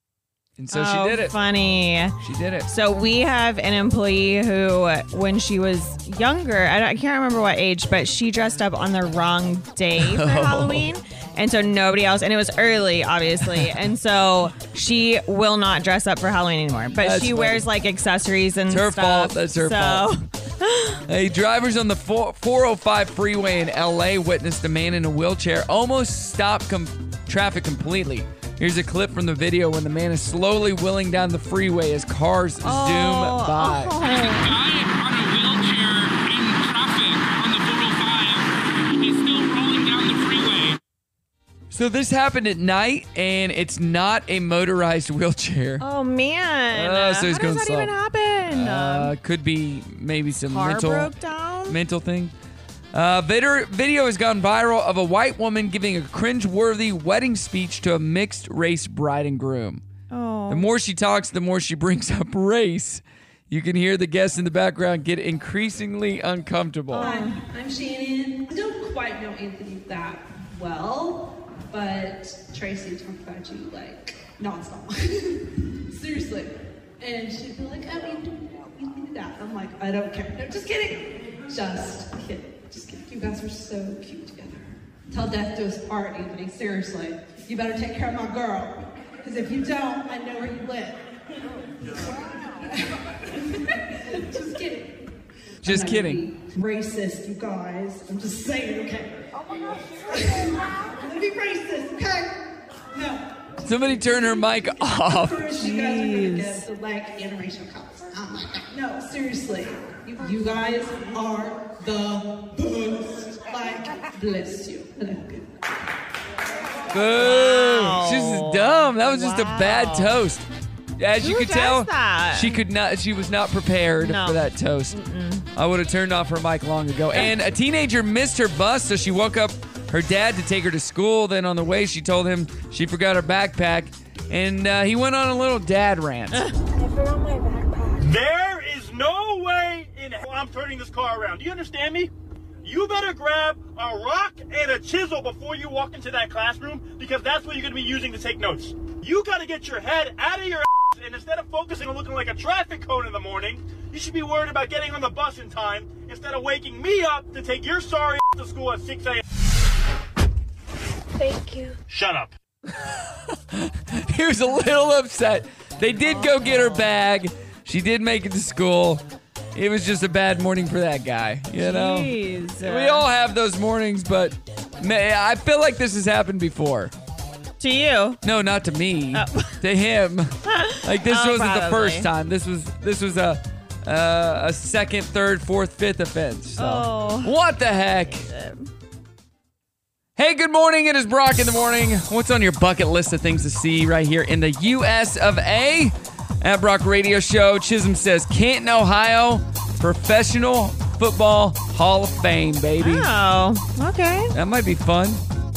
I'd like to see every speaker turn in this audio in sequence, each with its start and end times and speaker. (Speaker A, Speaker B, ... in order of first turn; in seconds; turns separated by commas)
Speaker A: 0.6-1.4, Speaker B: 0.7-2.1, Speaker A: 2.2-2.7, Speaker B: 2.7-21.0, Speaker A: 10.0-10.9, Speaker A: 13.5-13.7, Speaker A: 17.0-17.7, Speaker A: 18.7-20.1, Speaker A: 21.1-34.0, Speaker B: 32.6-34.5, Speaker C: 34.2-40.8, Speaker A: 41.7-45.9, Speaker B: 45.8-49.1, Speaker A: 46.7-47.9, Speaker A: 48.5-51.1, Speaker B: 50.4-51.8, Speaker A: 51.7-52.3, Speaker A: 52.9-59.8, Speaker B: 60.1-60.7, Speaker A: 60.5-67.1, Speaker B: 66.9-67.4, Speaker D: 67.0-91.1, Speaker D: 92.0-95.1, Speaker D: 95.6-99.3, Speaker A: 95.6-96.2, Speaker D: 100.1-102.4, Speaker D: 102.9-103.3, Speaker A: 103.6-105.5, Speaker D: 105.1-115.5, Speaker B: 105.6-106.6, Speaker A: 116.9-120.4, Speaker B: 117.2-120.2, Speaker A: 121.0-125.0, Speaker B: 121.2-122.6, Speaker B: 124.0-125.5, Speaker A: 125.5-136.5, Speaker E: 138.0-142.1, Speaker E: 142.6-159.2, Speaker E: 161.9-162.3, Speaker A: 162.8-169.0, Speaker B: 166.0-166.9, Speaker A: 169.6-176.9, Speaker B: 171.6-173.1, Speaker B: 177.6-178.2, Speaker A: 178.2-188.3, Speaker B: 179.1-179.6, Speaker B: 180.5-182.1, Speaker B: 186.6-188.7, Speaker A: 190.2-203.1, Speaker B: 202.8-204.3, Speaker A: 204.3-205.2